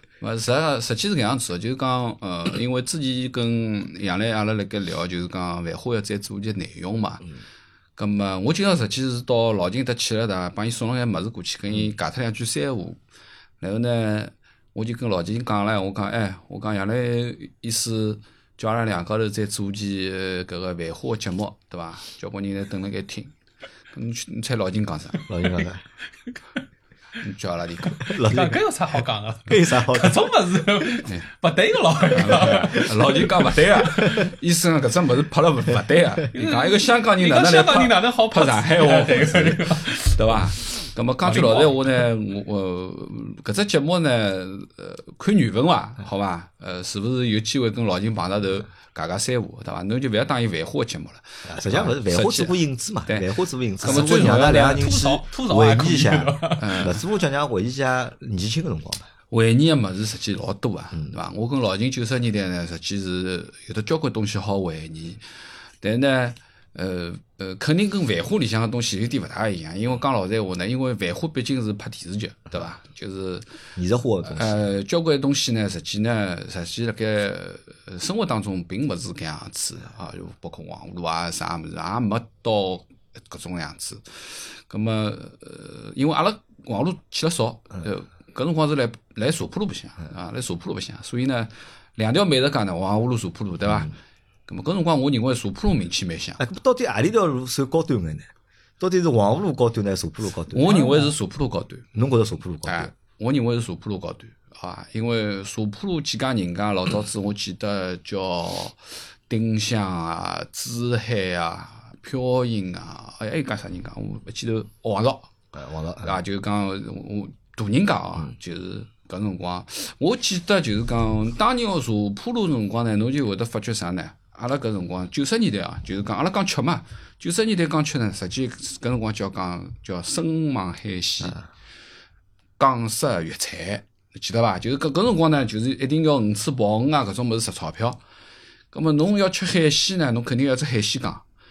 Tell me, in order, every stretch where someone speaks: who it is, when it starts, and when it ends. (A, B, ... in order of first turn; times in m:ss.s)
0:00.2-0:07.3 A
0:08.0-0:13.0 A
0:13.6-0:23.3 A
0:23.9-0:25.2 A
0:25.3-0:25.8 B
0:27.2-0:28.0 A
0:28.0-0:34.3 C
0:28.0-0:28.6 B
0:29.5-0:30.3 B
0:32.1-0:54.6 A
0:36.3-0:40.2 C
0:41.2-0:41.9 C
0:51.4-0:59.1 B
0:53.8-0:57.0 C
0:56.6-0:57.0 A
0:59.3-1:05.2 A
1:05.8-1:13.4 A
1:13.8-1:14.6 B
1:14.2-1:33.9 A
1:34.5-1:36.4 A
1:36.4-1:40.8 B
1:40.5-1:41.9 A
1:40.6-1:41.1 C
1:41.9-1:42.9 B
1:42.6-1:55.3 A
1:55.5-1:56.2 B
1:56.0-2:11.4 A
2:12.6-2:18.0 A
2:18.7-2:21.2 A